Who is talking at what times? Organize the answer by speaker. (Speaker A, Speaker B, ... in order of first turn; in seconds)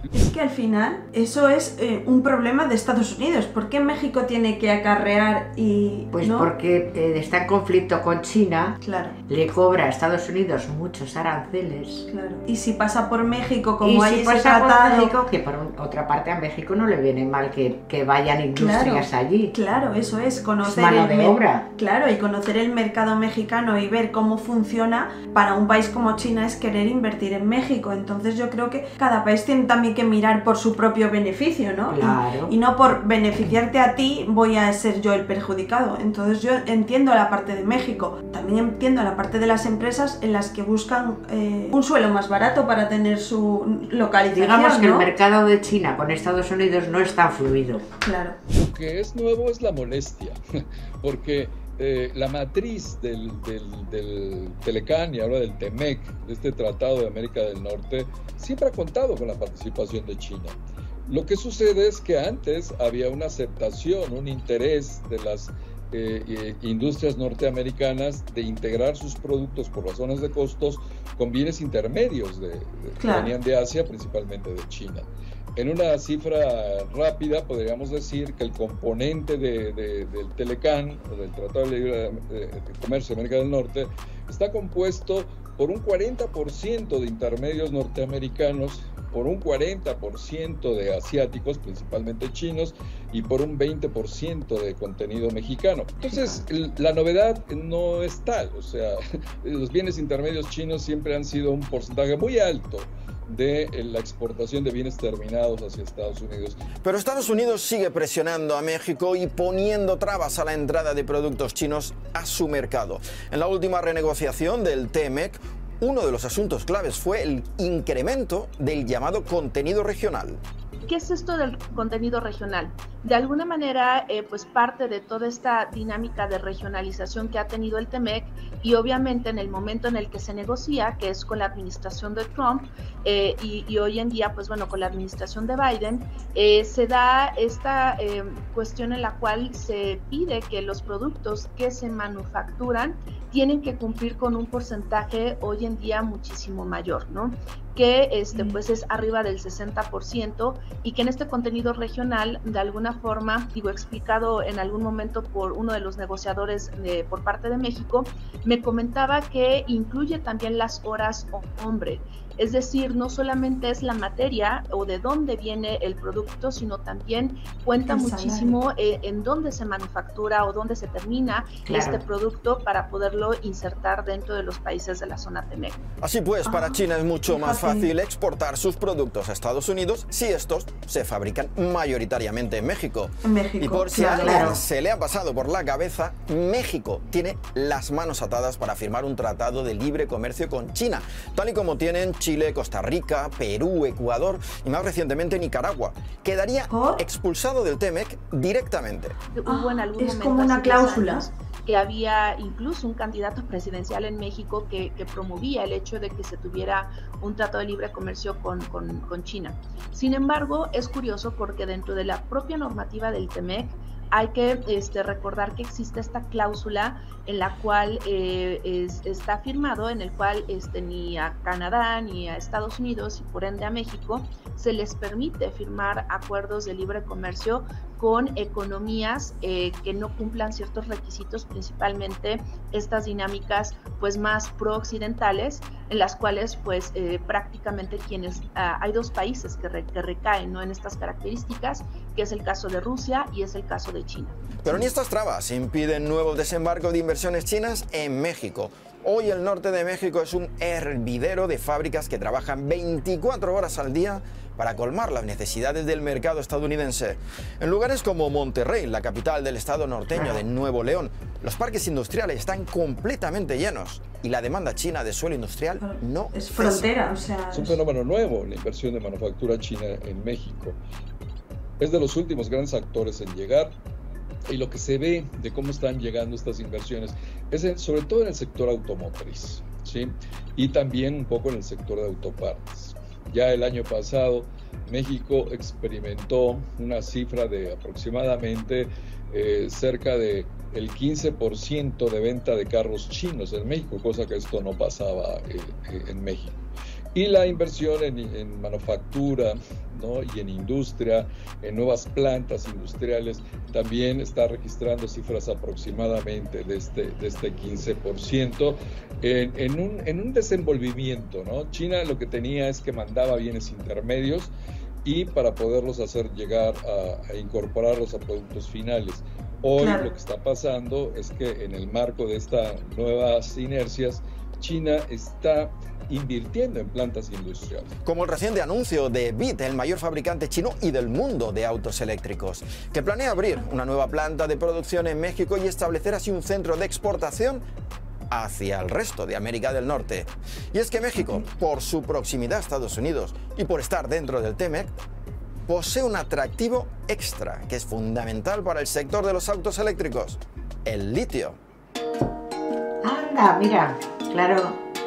Speaker A: 0.1-6.5, 8.8-9.1, 12.1-15.1, 18.6-45.1, 47.9-48.4, 73.0-73.3, 96.1-96.4, 148.3-148.6, 167.8-168.6, 176.4-177.9, 183.2-184.6, 196.7-197.0, 199.4-201.2, 265.8-267.8, 319.8-320.1
Speaker B: 6.1-12.1, 13.8-19.5, 20.6-21.6, 31.9-32.5, 44.3-47.8, 171.7-172.0, 184.2-184.6, 353.0-354.8
Speaker C: 48.5-50.4, 51.0-60.5, 61.1-106.6, 267.5-270.8, 271.8-273.7, 274.5-296.6, 297.1-314.5, 315.0-327.9
Speaker D: 106.8-120.4, 176.0-199.2, 244.6-266.9, 328.0-337.6, 338.3-344.9, 345.7-351.6
Speaker E: 120.8-175.8, 199.3-244.4